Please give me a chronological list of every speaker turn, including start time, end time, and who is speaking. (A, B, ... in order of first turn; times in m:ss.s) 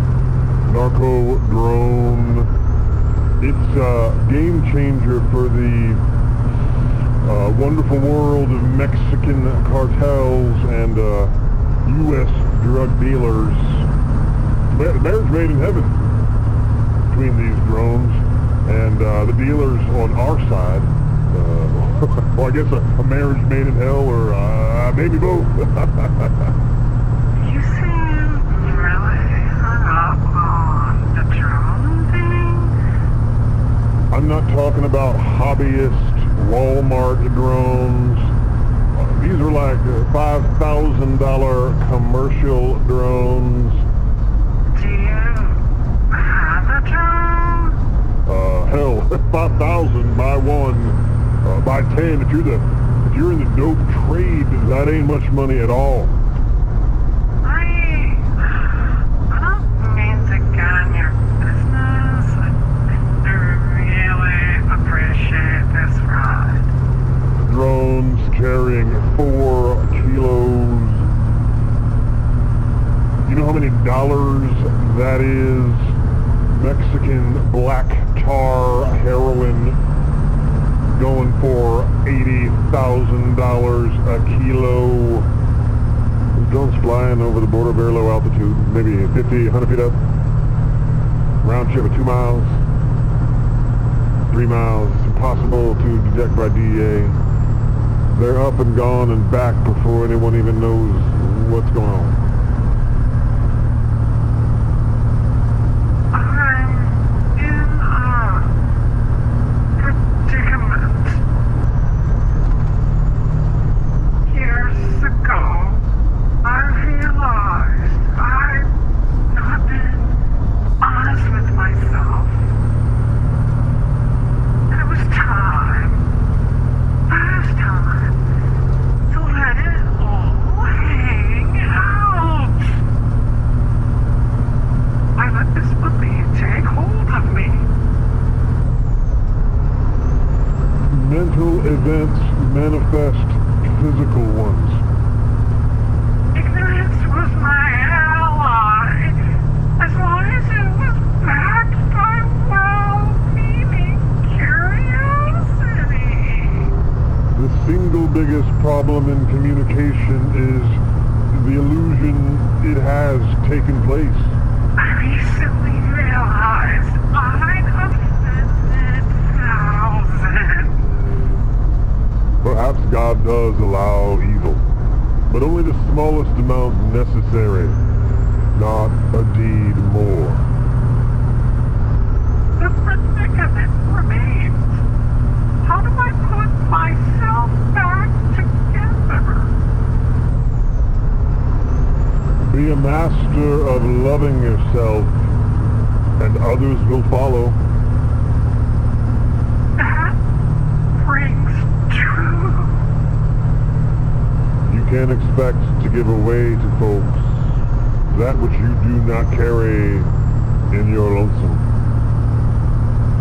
0:00.6-0:02.5 A
0:03.4-0:06.0 A
0:07.2-0:13.9 A
0:14.7-0:16.0 A
0:17.1-0:26.4 A
0:27.4-0:32.7 B
0:34.1-0:38.3 A
0:38.9-0:43.8 A
0:44.7-0:47.8 B
0:48.2-0:56.2 A
0:57.4-1:02.5 B
1:03.2-1:06.7 B
1:07.4-1:11.1 A
1:13.2-1:15.9 A
1:16.5-1:19.8 A
1:20.9-1:25.3 A
1:26.3-1:30.0 A
1:31.4-1:32.6 A
1:34.3-1:37.2 A
1:38.0-1:42.2 A
1:46.1-1:48.6 B
1:49.8-1:51.2 B
1:54.3-1:55.8 B
1:56.4-1:58.7 B
1:59.3-2:00.2 B
2:00.8-2:02.4 B
2:04.7-2:06.1 B
2:07.1-2:08.2 B
2:09.1-2:12.8 B
2:15.2-2:17.7 B
2:20.9-2:24.8 A
2:26.3-2:29.2 B
2:29.8-2:36.7 B
2:37.3-2:44.4 A
2:44.8-2:51.0 B
2:52.4-2:54.6 A
2:55.3-2:57.8 A
2:58.5-3:00.5 A
3:02.6-3:04.8 B
3:05.6-3:09.5 B
3:12.4-3:15.3 A
3:16.2-3:17.6 A
3:19.8-3:20.2 B
3:21.0-3:22.8 B
3:24.7-3:27.6 A
3:28.1-3:30.1 A
3:30.7-3:31.7 A